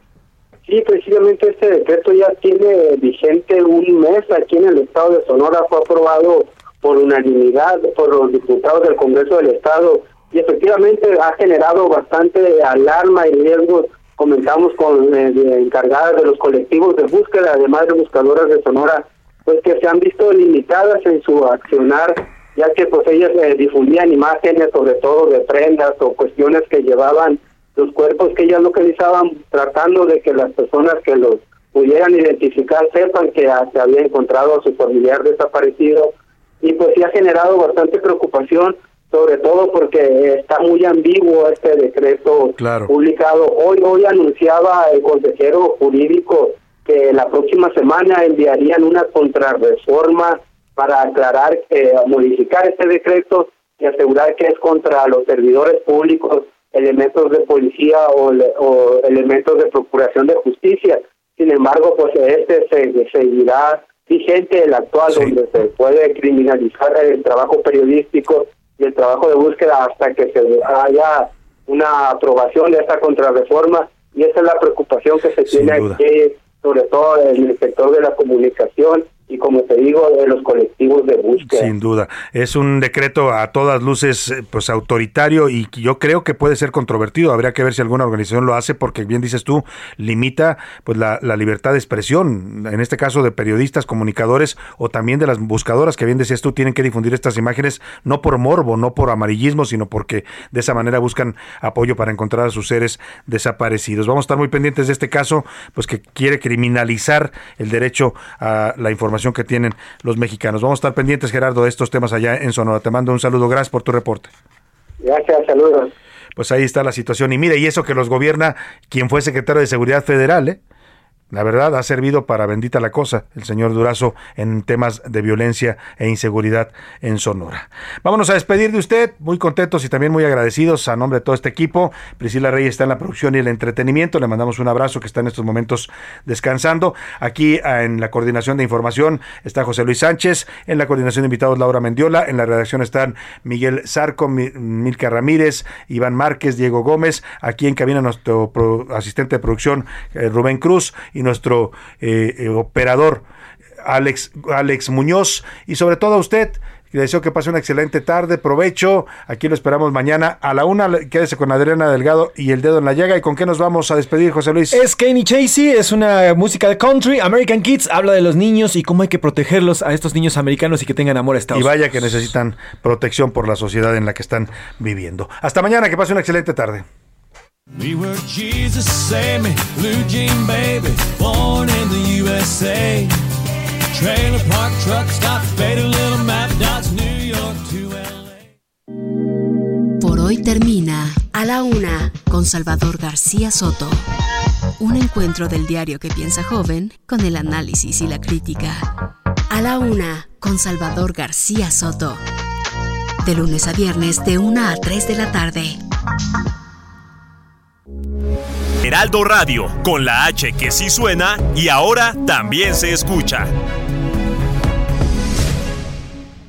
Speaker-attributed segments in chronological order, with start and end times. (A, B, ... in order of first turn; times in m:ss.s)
0:00.7-1:21.7 A
0:42.6-0:42.9 B
1:15.5-1:16.0 B
1:21.4-1:54.3 B
1:55.0-1:55.9 A
1:56.4-2:00.6 B
2:01.3-2:33.2 B
2:33.8-2:44.8 B
2:44.7-2:51.7 C
2:51.5-2:56.9 B
2:57.8-3:03.2 D
3:03.9-3:08.5 D
3:10.0-3:14.0 E
3:14.8-3:18.9 E
3:19.5-3:22.2 E
3:23.2-3:25.8 E
3:28.8-3:33.5 F